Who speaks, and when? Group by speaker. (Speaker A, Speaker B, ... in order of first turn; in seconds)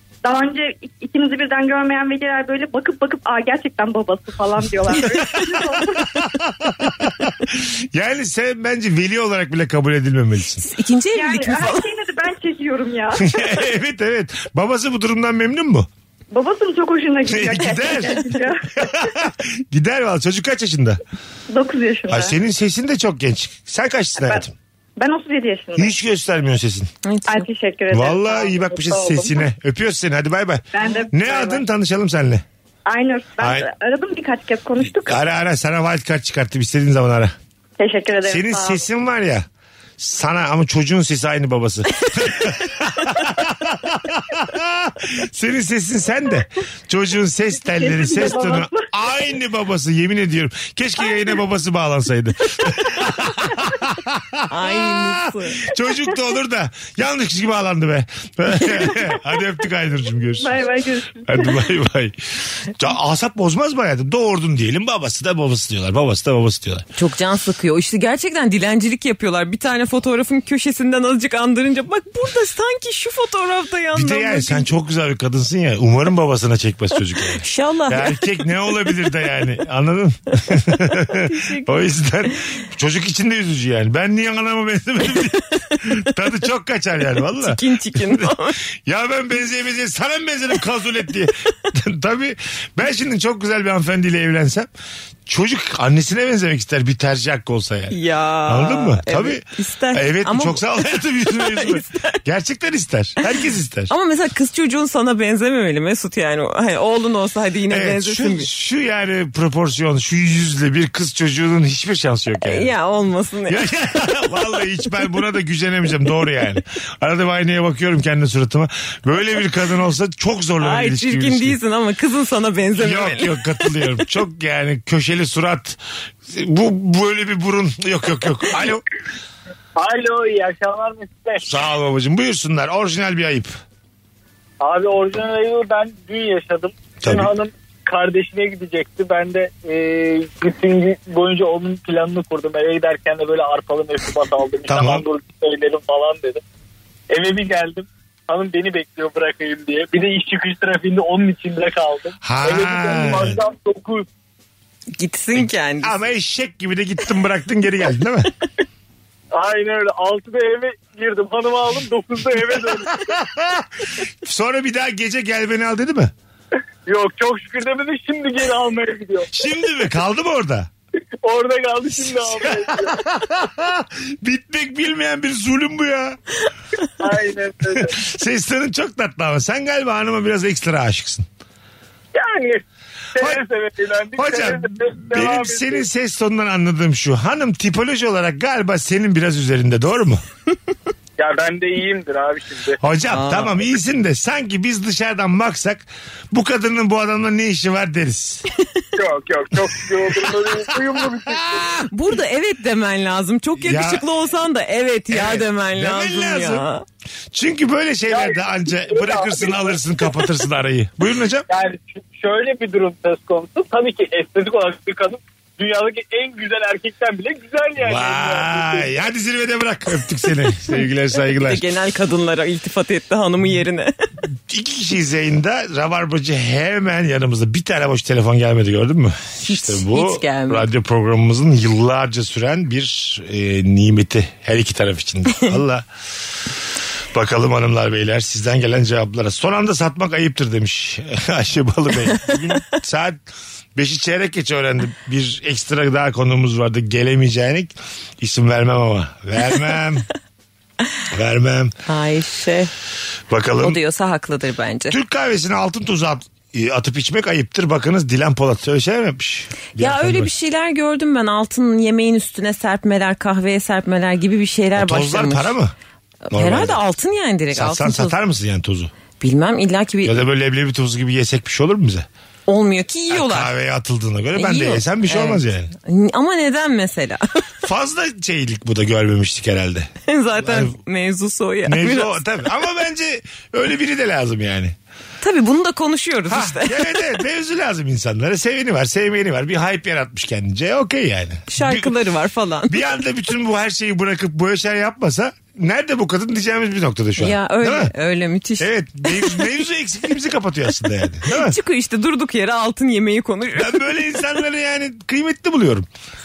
Speaker A: 0.2-6.2, 11.1-13.5, 16.3-19.1, 21.5-22.3, 24.2-24.4, 25.0-25.9, 27.3-29.4, 30.7-31.6, 32.9-35.2, 37.8-38.8, 47.7-48.9, 60.4-61.6
Speaker B: 5.4-10.6, 13.2-15.9, 17.3-21.0, 22.1-24.5, 25.8-26.9, 27.9-32.4, 33.4-33.7, 34.9-37.3, 38.2-39.5, 40.0-60.6, 61.2-66.8, 73.9-88.3, 88.8-94.7, 95.2-98.0, 98.5-103.9, 107.7-112.7, 113.5-121.6, 122.8-128.8, 131.4-133.5, 137.0-137.3, 144.7-145.0, 152.2-153.4, 155.4-158.3, 163.1-163.6, 164.2-166.1, 169.3-170.7, 172.4-176.2, 177.9-181.3, 184.2-190.2, 192.8-198.4, 200.2-200.5, 201.2-201.8, 203.6-204.0, 205.1-206.6, 207.3-211.5, 217.8-221.6, 224.5-235.8, 237.1-243.2, 243.7-250.1, 251.1-251.7, 253.3-253.8, 254.9-260.3, 264.8-265.7, 266.3-266.8, 267.5-268.9, 270.0-272.1, 273.1-275.7, 277.6-280.7, 281.6-284.8, 286.3-291.9, 292.7-297.9, 298.6-301.6, 303.6-305.9
Speaker C: 10.6-11.9, 27.0-27.5, 54.5-55.6, 67.0-74.7, 77.4-78.2, 81.2-81.8, 87.4-88.6, 97.9-100.6, 101.2-102.2, 103.9-108.5, 112.4-113.6, 120.6-123.4, 154.9-156.0, 193.1-193.6, 201.9-206.8, 221.3-223.9, 229.4-230.7, 251.9-252.7, 253.6-254.9, 259.8-265.5, 266.3-268.2, 269.2-270.2, 272.5-273.5, 274.4-277.2, 280.1-282.2, 285.2-286.9, 291.5-292.8, 297.2-299.5, 301.3-303.9
Speaker D: 129.8-131.6, 134.6-146.4, 147.1-154.1, 159.3-163.2, 166.8-169.3, 171.2-173.0, 177.0-178.0, 182.1-182.6, 183.1-185.9, 191.2-192.8, 199.0-201.7, 208.1-209.8, 211.5-218.9